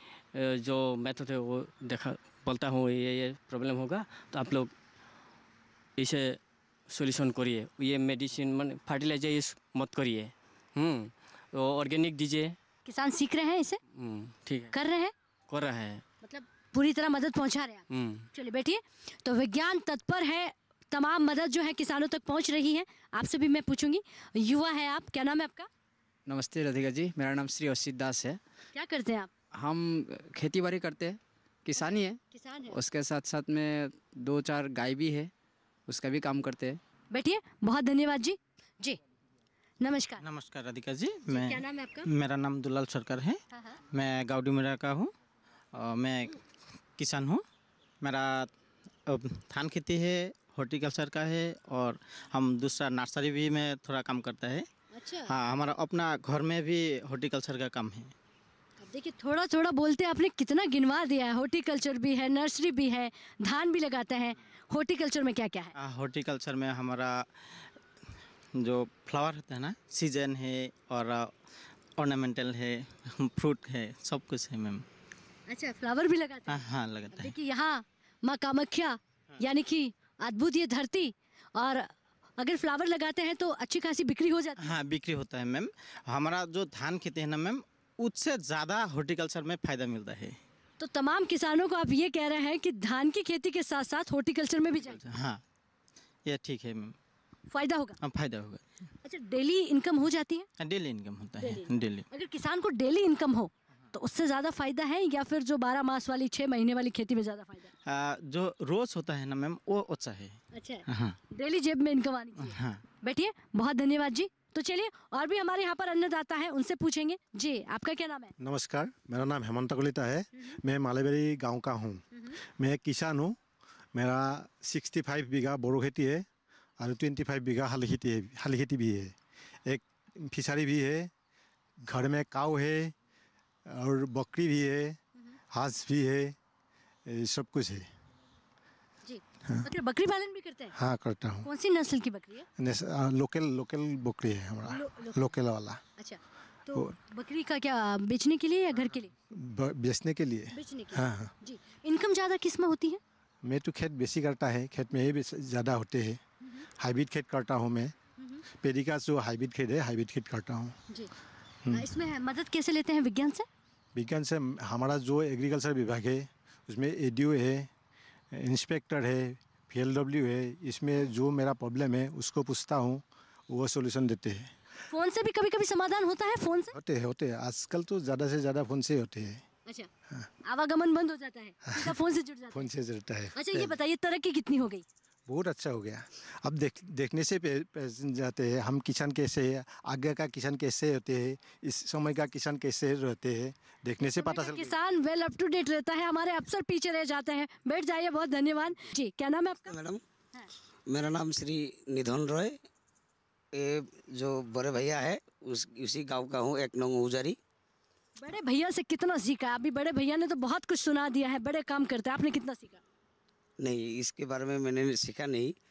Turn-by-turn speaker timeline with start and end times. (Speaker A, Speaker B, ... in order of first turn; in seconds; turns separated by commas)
Speaker A: 0.3-4.7, Speaker A: 6.0-12.6, Speaker B: 12.8-13.8, Speaker A: 13.9-14.7, Speaker B: 14.7-15.1, Speaker A: 15.5-16.0, Speaker B: 16.2-25.7, Speaker A: 17.9-18.3, Speaker C: 26.3-28.4, Speaker B: 28.7-29.3, Speaker C: 29.5-35.3, Speaker B: 31.8-32.8, Speaker C: 35.9-36.8, Speaker B: 37.1-39.0, Speaker B: 39.8-40.2, Speaker D: 40.2-43.4, Speaker B: 41.3-42.1, Speaker B: 43.5-43.8, Speaker D: 43.9-45.1, Speaker D: 45.7-46.4, Speaker D: 47.0-47.4, Speaker D: 48.0-48.5, Speaker D: 49.1-54.6, Speaker B: 54.9-55.3, Speaker D: 55.3-58.1, Speaker B: 58.8-65.7, Speaker D: 65.8-67.7, Speaker D: 68.6-71.4, Speaker D: 72.0-74.8, Speaker B: 75.5-84.7, Speaker D: 76.5-77.3, Speaker D: 84.6-90.3, Speaker B: 90.8-95.0, Speaker D: 94.9-95.4, Speaker D: 96.3-96.9, Speaker B: 97.5-98.0, Speaker D: 98.0-98.7, Speaker B: 99.0-100.5, Speaker D: 100.6-102.0, Speaker B: 101.4-107.7, Speaker D: 107.9-111.2, Speaker B: 110.5-118.3, Speaker D: 112.4-112.8, Speaker E: 118.4-123.3, Speaker E: 123.9-126.2, Speaker E: 126.8-129.1, Speaker E: 129.7-131.1, Speaker E: 131.9-132.9, Speaker E: 133.7-135.0, Speaker E: 135.5-136.3, Speaker E: 137.1-137.8, Speaker B: 139.0-140.7, Speaker E: 140.7-141.5, Speaker B: 141.4-142.5, Speaker E: 142.6-145.8, Speaker B: 144.7-145.2, Speaker B: 146.0-149.1, Speaker E: 149.3-151.3, Speaker B: 150.5-153.0, Speaker E: 153.4-156.2, Speaker E: 156.8-157.9, Speaker E: 158.6-160.7, Speaker E: 161.6-161.9, Speaker B: 161.7-163.4, Speaker E: 163.9-167.7, Speaker E: 168.3-174.5, Speaker B: 174.9-176.7, Speaker E: 176.7-179.4, Speaker B: 180.4-182.7, Speaker E: 181.7-182.0, Speaker E: 182.5-183.8, Speaker B: 183.3-184.8, Speaker E: 185.3-194.8, Speaker B: 194.2-199.7, Speaker F: 199.7-200.0, Speaker F: 200.9-202.6, Speaker F: 203.5-207.4, Speaker B: 208.2-212.8, Speaker F: 213.6-215.5